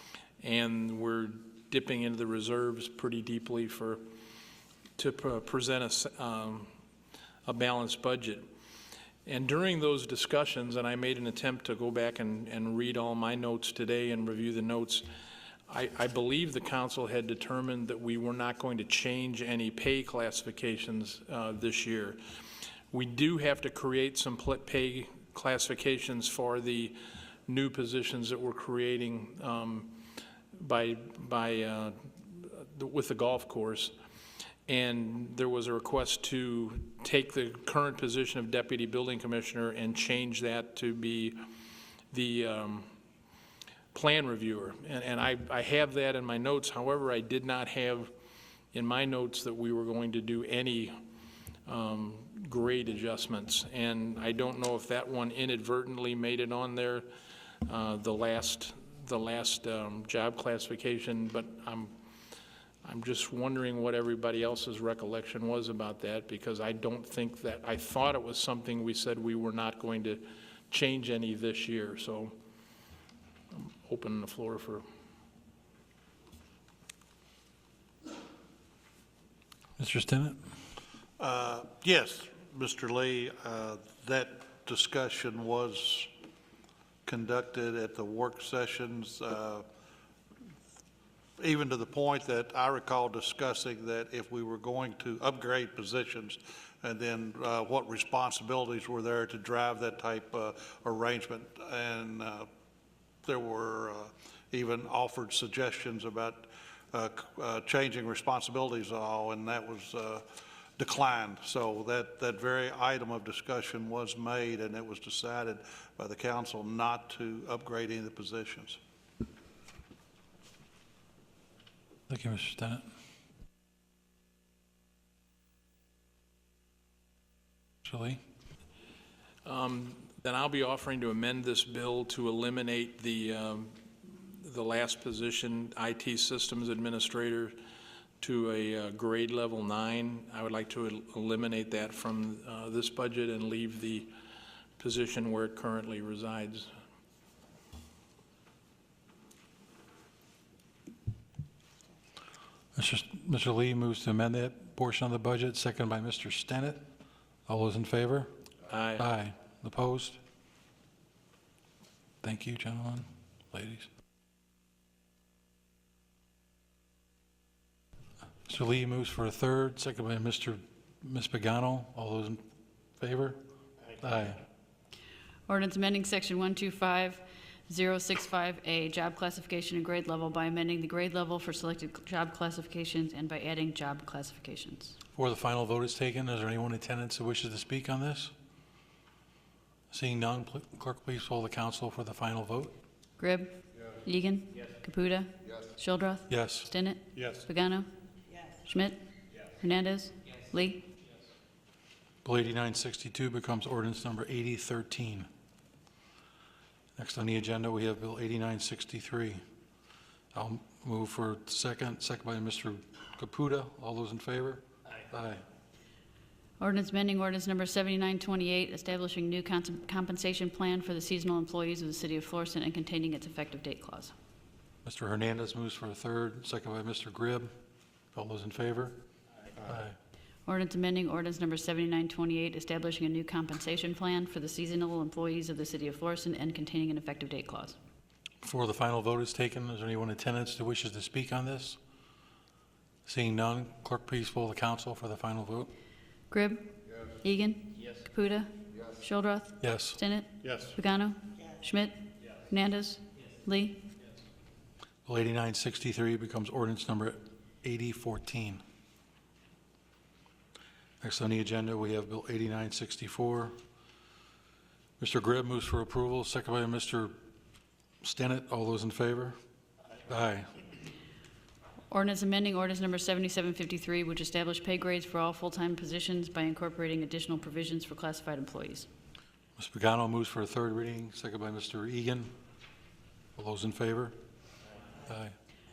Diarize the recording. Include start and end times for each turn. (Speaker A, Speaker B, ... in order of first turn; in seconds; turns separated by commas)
Speaker A: 0.4-4.0, Speaker A: 5.0-6.7, Speaker A: 7.5-8.5, Speaker A: 9.2-15.1, Speaker A: 15.7-22.2, Speaker A: 22.9-33.9, Speaker A: 34.7-41.5, Speaker A: 42.1-42.9, Speaker A: 43.9-48.1, Speaker A: 48.7-51.0, Speaker A: 51.6-57.1, Speaker A: 57.6-61.9, Speaker A: 62.8-72.3, Speaker A: 73.5-74.8, Speaker B: 79.8-80.4, Speaker C: 81.2-86.1, Speaker C: 87.0-89.7, Speaker C: 91.4-102.5, Speaker C: 103.2-110.2, Speaker C: 110.8-118.8, Speaker B: 122.1-122.8, Speaker B: 127.8-128.2, Speaker A: 129.4-137.6, Speaker A: 138.2-144.1, Speaker A: 144.8-146.8, Speaker B: 152.7-156.8, Speaker B: 157.4-158.3, Speaker A: 158.7-159.1, Speaker B: 159.0-160.2, Speaker B: 162.2-163.9, Speaker B: 168.4-172.4, Speaker B: 173.0-173.4, Speaker B: 173.9-174.4, Speaker D: 175.5-185.0, Speaker B: 185.1-188.3, Speaker B: 189.9-192.8, Speaker D: 193.2-197.9, Speaker B: 196.3-196.7, Speaker C: 197.2-197.5, Speaker D: 198.7-199.0, Speaker D: 199.6-200.9, Speaker B: 202.2-205.3, Speaker B: 206.9-209.4, Speaker B: 210.3-215.4, Speaker D: 216.6-224.1, Speaker B: 224.8-227.5, Speaker B: 228.1-229.0, Speaker B: 229.6-229.9, Speaker D: 230.4-237.8, Speaker B: 238.4-241.8, Speaker B: 243.1-245.7, Speaker D: 246.3-246.7, Speaker D: 247.2-253.8, Speaker B: 249.6-250.0, Speaker C: 250.4-250.8, Speaker B: 255.1-258.6, Speaker B: 261.0-263.6, Speaker B: 265.0-267.1, Speaker B: 268.0-269.4, Speaker B: 270.0-270.5, Speaker D: 271.9-278.9, Speaker B: 279.6-282.3, Speaker B: 283.4-284.2, Speaker B: 285.1-285.3